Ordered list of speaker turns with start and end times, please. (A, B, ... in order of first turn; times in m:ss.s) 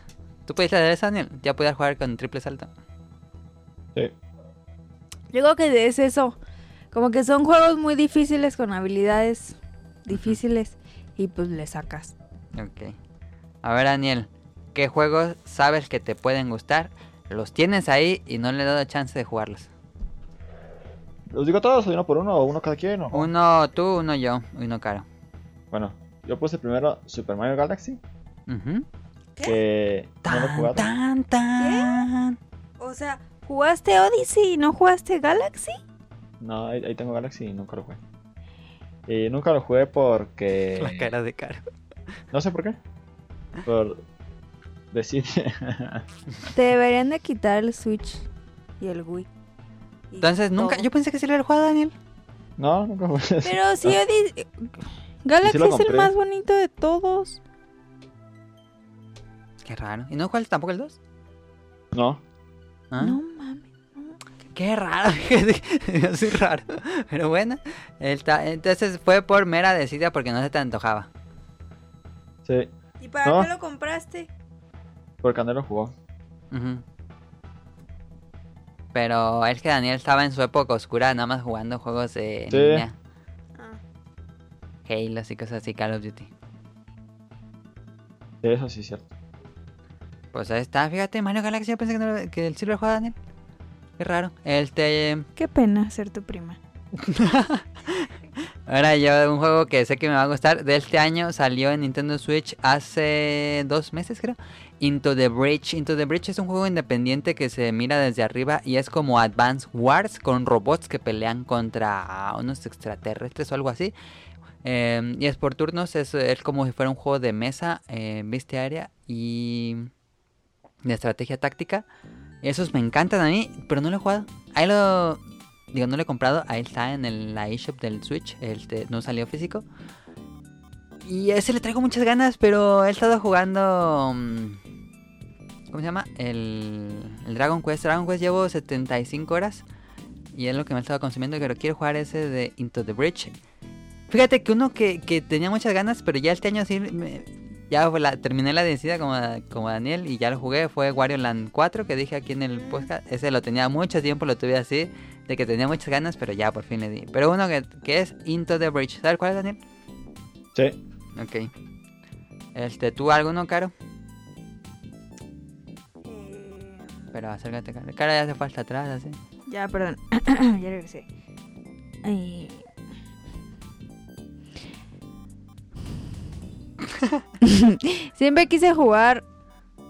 0:00.4-0:02.7 A
0:05.3-0:06.4 B
0:06.9-0:12.1 B
0:10.1-0:10.4 A
0:12.5-0:12.9 A
0:13.6-0:19.7 A
0:21.3-0:23.3 C
0:23.1-0:25.0 A
0:25.7-0:28.0 C
0:28.5-0:28.8 A
0:29.4-0:30.9 C
0:30.2-0:32.4 A
0:31.6-0:32.1 B
0:32.8-0:35.8 B
0:36.4-0:38.0 C
0:39.1-0:41.1 C
0:40.8-0:41.6 A
0:42.3-0:42.8 C
0:43.6-0:44.0 C
0:44.9-0:46.0 C
0:46.5-0:48.2 B
0:48.8-0:49.3 B
0:50.1-0:50.9 B
0:50.2-0:51.9 A
0:52.6-0:54.0 C
0:53.4-0:57.4 B
0:55.4-0:56.1 C
0:59.6-1:01.0 A
1:01.9-1:02.2 C
1:02.9-1:03.2 A
1:03.0-1:04.2 B
1:04.5-1:11.1 A
1:12.4-1:12.7 C
1:13.0-1:14.3 B
1:13.2-1:13.5 C
1:15.2-1:15.9 C
1:16.5-1:16.8 A
1:18.9-1:22.9 A
1:22.5-1:22.8 C
1:24.8-1:26.3 A
1:28.4-1:29.1 C
1:30.3-1:33.1 A
1:34.0-1:35.2 A
1:35.4-1:36.6 B
1:37.0-1:38.1 A
1:38.7-1:53.9 A
1:54.6-1:59.9 A
2:00.8-2:01.8 A
2:02.4-2:05.2 A
2:05.7-2:09.6 A
2:11.0-2:14.6 A
2:15.7-2:19.6 A
2:20.3-2:23.3 A
2:24.1-2:39.6 A
2:41.1-2:41.5 A
2:42.5-2:43.7 A
2:46.0-2:46.9 B
2:47.1-2:49.2 A
2:49.5-2:51.0 B
2:52.0-2:52.7 B
2:57.4-2:59.2 B